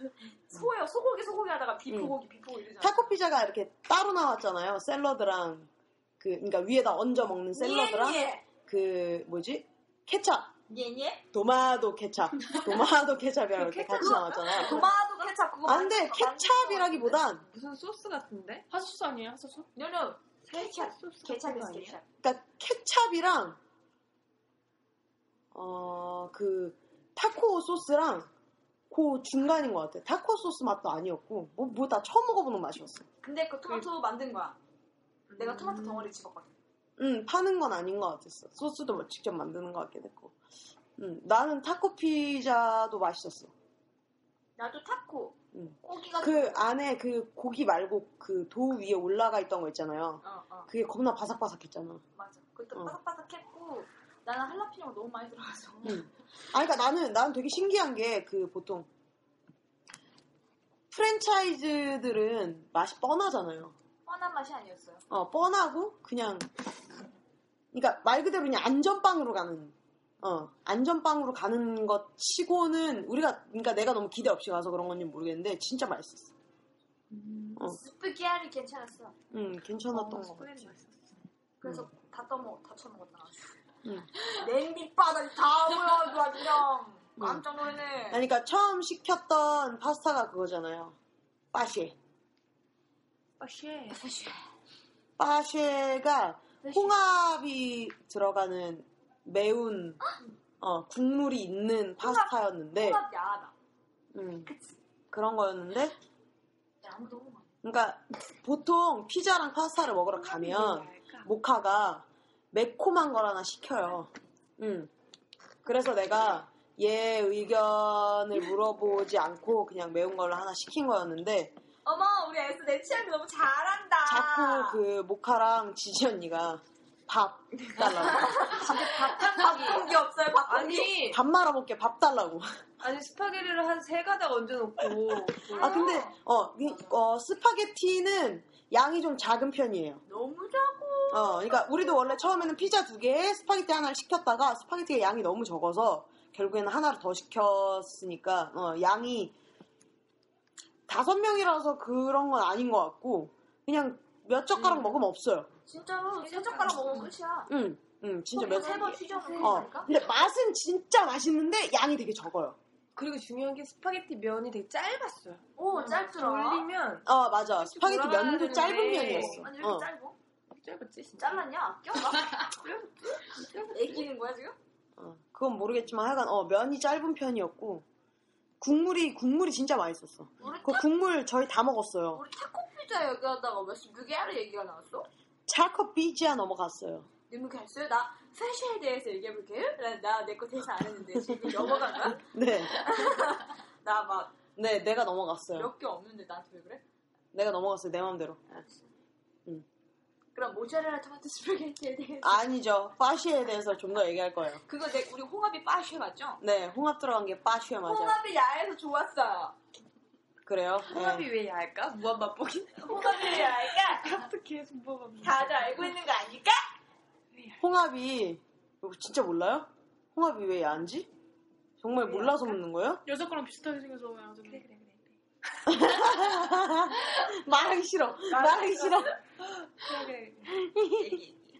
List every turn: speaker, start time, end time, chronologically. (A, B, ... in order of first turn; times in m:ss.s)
0:00.5-0:03.1 A
0:01.9-0:02.1 B
0:02.8-0:10.5 B
0:07.5-0:08.4 A
0:10.7-0:11.2 A
0:11.3-0:14.9 B
0:13.5-0:14.8 C
0:14.0-0:17.2 A
0:15.6-0:17.4 B
0:17.4-0:18.6 C
0:18.7-0:19.7 D
0:19.8-0:22.0 A
0:20.4-0:22.0 C
0:22.2-0:23.6 B
0:25.5-0:28.3 B
0:28.9-0:33.0 B
0:33.2-0:34.6 A
0:35.3-0:36.1 C
0:35.4-0:36.5 A
0:37.0-0:40.3 B
0:41.0-0:43.5 B
0:44.6-0:46.6 A
0:45.5-0:52.0 B
0:50.2-0:50.7 A
0:52.1-0:56.1 A
0:55.8-0:58.9 B
1:00.9-1:03.7 B
1:04.0-1:05.0 A
1:05.1-1:06.5 B
1:07.7-1:16.3 B
1:17.1-1:17.4 C
1:17.5-1:19.1 A
1:19.3-1:20.5 B
1:19.9-1:21.2 C
1:21.6-1:23.6 A
1:24.3-1:28.2 A
1:27.2-1:27.4 B
1:28.1-1:31.0 B
1:31.5-1:32.0 B
1:33.4-1:34.0 C
1:33.9-1:34.4 A
1:35.2-1:40.0 B
1:36.6-1:36.9 A
1:40.0-1:40.3 A
1:40.6-1:43.0 B
1:42.0-1:43.5 A
1:44.1-1:44.5 B
1:44.4-1:44.8 A
1:45.1-1:45.9 B
1:46.8-1:47.5 A
1:47.6-1:54.9 B
1:50.1-1:51.3 C
1:55.6-2:01.6 B
2:01.8-2:04.8 A
2:04.0-2:08.8 B
2:07.8-2:11.1 A
2:08.8-2:09.9 C
2:10.4-2:11.2 C
2:11.1-2:12.5 B
2:12.8-2:16.0 C
2:15.5-2:20.0 B
2:15.5-2:16.1 A
2:20.0-2:22.5 A
2:21.1-2:29.3 B
2:30.9-2:35.5 B
2:34.6-2:34.9 C
2:35.6-2:37.5 A
2:36.2-2:37.1 C
2:37.5-2:42.6 B
2:38.3-2:39.9 A
2:38.8-2:40.0 C
2:43.0-2:47.1 C
2:45.6-2:46.6 A
2:47.0-2:49.9 B
2:47.6-2:49.4 C
2:49.0-2:50.2 A
2:50.5-2:51.5 C
2:51.2-2:54.5 A
2:52.5-2:54.0 C
2:55.0-2:57.8 B
2:58.6-3:02.2 B
3:00.4-3:00.8 A
3:02.1-3:05.1 A
3:05.5-3:07.1 B
3:07.3-3:14.4 A
3:11.2-3:13.0 B
3:14.6-3:15.7 B
3:15.5-3:16.8 A
3:17.3-3:18.6 B
3:20.3-3:22.4 A
3:22.2-3:24.6 B
3:24.6-3:26.4 A
3:26.4-3:28.2 B
3:27.8-3:29.6 A
3:30.4-3:31.3 B
3:30.9-3:35.9 C
3:32.8-3:34.1 A
3:35.2-3:36.6 A
3:37.3-3:37.6 C
3:37.6-3:41.1 B
3:41.8-3:43.0 B
3:43.0-3:44.6 D
3:44.4-3:45.1 C
3:45.7-3:49.1 B
3:48.3-3:50.5 C
3:50.6-3:51.2 B